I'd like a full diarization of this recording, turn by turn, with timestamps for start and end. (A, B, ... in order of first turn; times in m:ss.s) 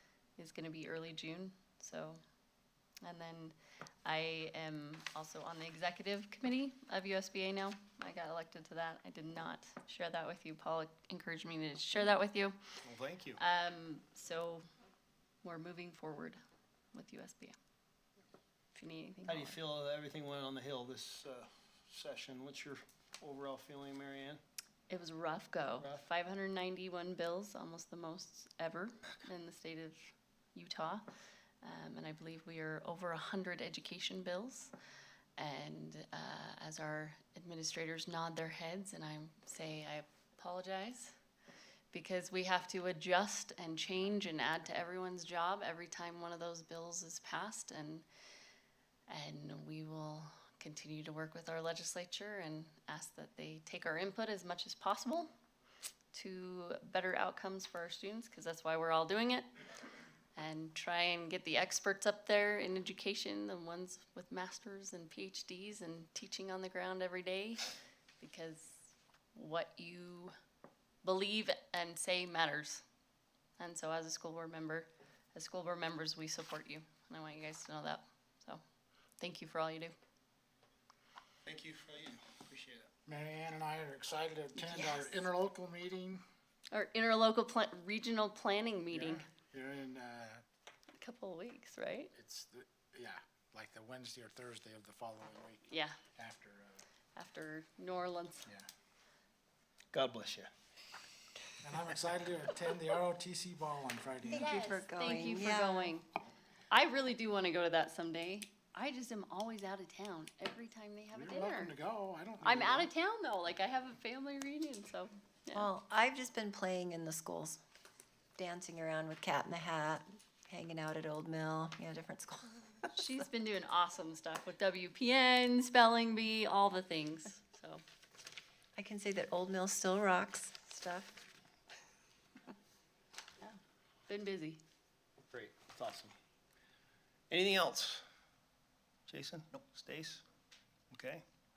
0:00.4-0:02.2 A
0:03.0-0:12.6 A
0:12.8-0:13.4 B
0:13.4-0:14.7 A
0:15.4-0:16.4 A
0:16.9-0:17.6 A
0:18.7-0:19.6 A
0:19.3-0:24.4 B
0:24.9-0:31.1 A
0:31.6-0:34.7 A
0:35.4-0:41.2 A
0:41.9-0:48.0 A
0:49.1-0:55.3 A
0:56.1-0:59.5 A
1:00.4-1:07.7 A
1:08.2-1:10.3 A
1:11.0-1:12.8 A
1:13.6-1:18.6 A
1:19.2-1:20.0 A
1:21.5-1:22.9 B
1:23.1-1:26.2 C
1:24.6-1:25.2 D
1:26.7-1:29.3 A
1:28.9-1:30.4 C
1:31.0-1:32.1 A
1:32.2-1:36.8 C
1:35.7-1:36.0 A
1:37.2-1:38.5 A
1:39.9-1:40.5 B
1:41.6-1:44.5 C
1:44.2-1:46.0 D
1:44.3-1:46.1 A
1:46.7-1:51.7 A
1:51.1-1:52.9 C
1:52.4-1:55.7 A
1:55.6-1:57.6 D
1:58.4-2:02.9 D
2:02.9-2:07.8 A
2:08.8-2:11.2 D
2:13.4-2:14.6 A
2:15.3-2:16.1 B
2:17.3-2:18.0 B
2:19.1-2:20.2 B
2:20.9-2:21.2 B